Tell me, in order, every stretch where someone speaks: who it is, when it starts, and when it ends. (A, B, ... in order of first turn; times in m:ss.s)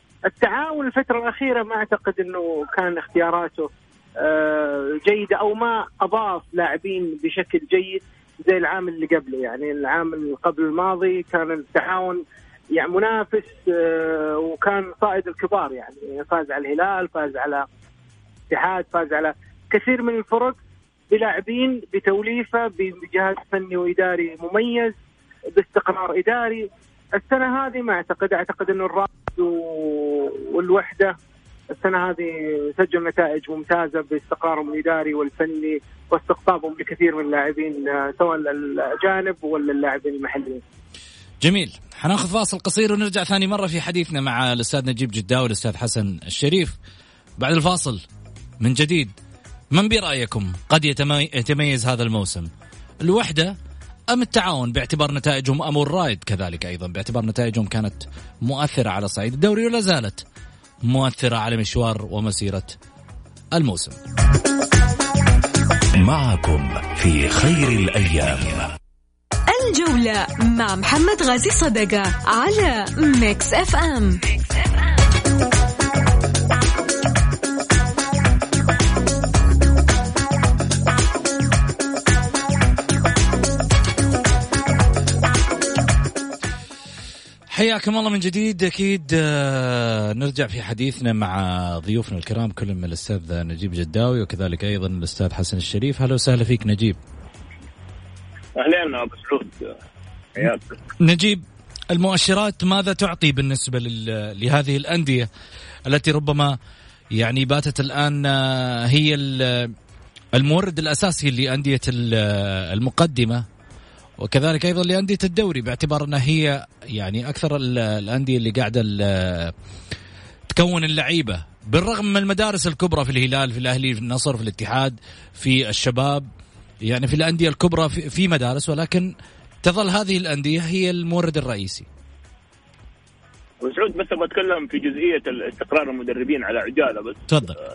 0:00.3-0:03.7 A
0:04.2-0:12.2 A
0:12.8-0:17.6 A
0:18.5-0:20.6 A
0:21.1-0:25.0 A
0:25.6-0:31.2 A
0:31.7-0:40.6 A
0:41.4-0:46.8 B
0:47.4-0:48.0 B
0:48.6-0:49.2 B
0:49.7-0:52.5 B
0:53.0-0:53.6 B
0:54.1-1:00.2 B
1:00.9-1:02.8 B
1:03.6-1:04.0 B
1:06.0-1:08.8 C
1:09.5-1:15.1 D
1:27.5-1:37.0 B
1:38.6-1:39.8 E
1:40.4-1:40.8 E
1:41.0-1:45.3 B
1:45.9-1:46.6 B
1:47.1-1:49.7 B
1:50.4-1:53.4 B
1:54.2-1:59.5 B
2:00.5-2:06.3 B
2:06.8-2:09.1 B
2:09.6-2:11.9 B
2:13.6-2:17.3 E
2:17.3-2:17.6 B